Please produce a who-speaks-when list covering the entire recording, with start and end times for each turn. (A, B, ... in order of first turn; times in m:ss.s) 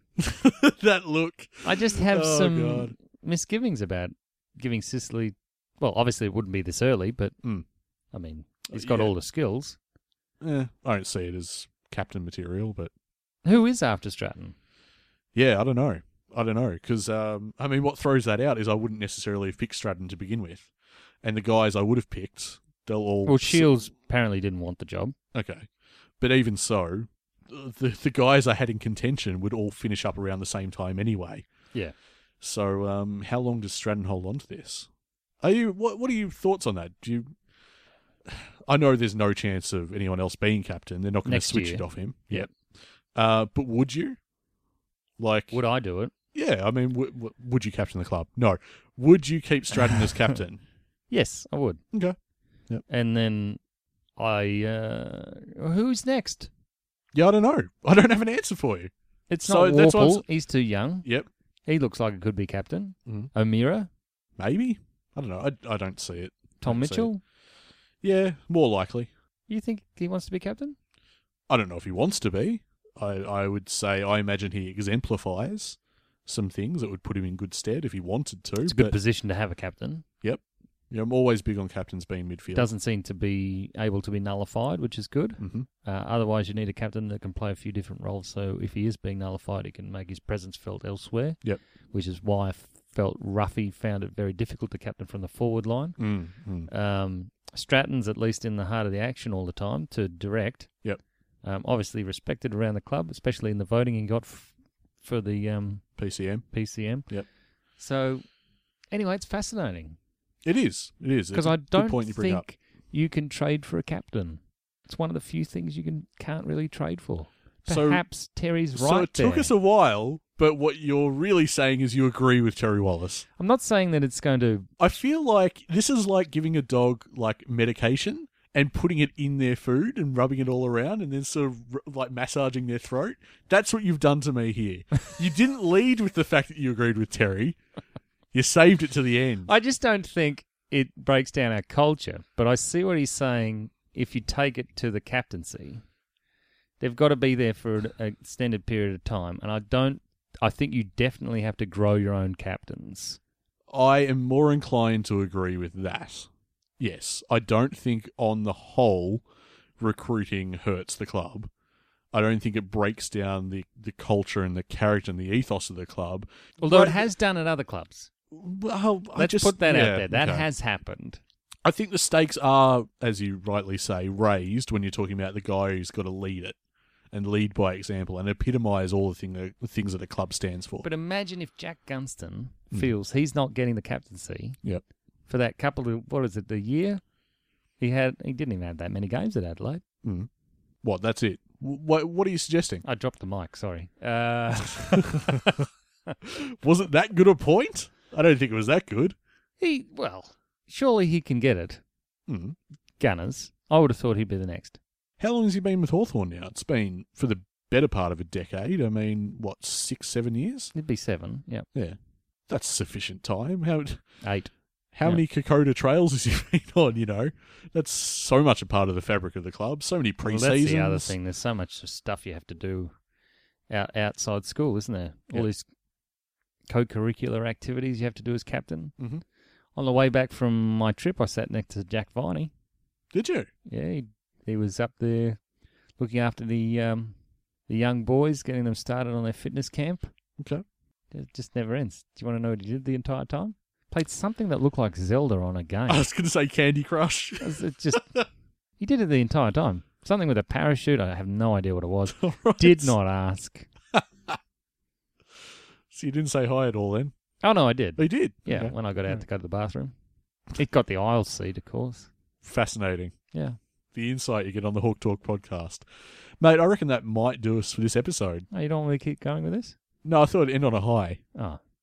0:00.2-0:02.9 A
0:01.6-0:07.4 B
0:08.1-0:09.8 B
0:08.7-0:09.1 A
0:10.4-0:12.9 A
0:13.4-0:14.6 B
0:15.3-0:20.7 A
0:21.2-0:23.7 A
0:23.2-0:25.1 B
0:25.3-0:25.7 A
0:26.2-0:31.5 A
0:32.4-0:34.9 A
0:35.4-0:37.3 A
0:38.2-0:42.5 A
0:41.2-0:42.5 B
0:43.1-0:44.2 A
0:45.2-0:45.6 A
0:45.5-0:46.1 B
0:46.3-0:50.6 A
0:51.1-0:51.8 B
0:52.9-0:53.6 B
0:54.2-0:56.5 B
0:57.1-0:58.9 A
0:59.3-1:01.1 B
0:59.4-1:00.2 A
1:01.6-1:03.9 B
1:04.4-1:07.1 A
1:06.6-1:07.2 B
1:08.0-1:09.1 A
1:09.5-1:10.8 B
1:11.5-1:19.0 A
1:18.6-1:20.0 B
1:20.2-1:22.7 A
1:22.5-1:36.0 B
1:25.4-1:25.7 A
1:36.0-1:36.7 A
1:36.7-1:40.7 B
1:41.4-1:45.9 B
1:46.0-1:46.5 A
1:46.5-1:47.1 B
1:47.8-1:48.2 B
1:48.9-1:50.0 B
1:50.4-1:52.4 A
1:51.3-1:59.5 B
1:57.7-1:58.0 A
1:58.7-2:03.2 A
2:03.4-2:04.7 B
2:04.8-2:17.6 A
2:18.3-2:19.5 A
2:19.4-2:25.8 B
2:26.8-2:33.2 B
2:33.7-2:39.2 A
2:39.8-2:41.5 A
2:42.1-2:47.0 A
2:46.6-2:48.1 B
2:48.3-2:50.5 A
2:49.2-2:51.2 B
2:51.6-2:56.6 A
2:57.1-3:00.9 A
3:00.8-3:04.6 B
3:05.3-3:07.0 B
3:07.8-3:09.8 B
3:10.0-3:10.3 A
3:10.8-3:12.8 A
3:12.8-3:15.5 B
3:14.8-3:15.6 A
3:16.2-3:19.2 A
3:19.6-3:21.8 B
3:22.3-3:22.6 A
3:23.0-3:24.8 B
3:25.2-3:30.7 A
3:30.7-3:31.6 B
3:32.5-3:34.0 A
3:34.2-3:34.5 B
3:34.9-3:41.1 A
3:40.2-3:42.9 B
3:43.7-3:45.7 B
3:46.7-3:48.9 B
3:49.0-3:49.2 A
3:49.7-3:52.5 B
3:53.1-3:53.5 A
3:53.7-3:55.4 B
3:56.0-3:57.2 B
3:57.7-4:00.1 B
4:00.4-4:00.6 A
4:01.1-4:06.1 B
4:05.9-4:08.2 A
4:07.4-4:08.0 B
4:08.8-4:13.7 B
4:12.1-4:12.9 A
4:13.9-4:14.4 A
4:15.9-4:17.1 A
4:17.4-4:19.9 B
4:18.0-4:19.1 A
4:20.6-4:22.1 B
4:22.4-4:23.1 A
4:23.9-4:25.8 A
4:26.4-4:28.5 A
4:28.5-4:29.7 B
4:30.0-4:31.2 A
4:31.3-4:31.6 B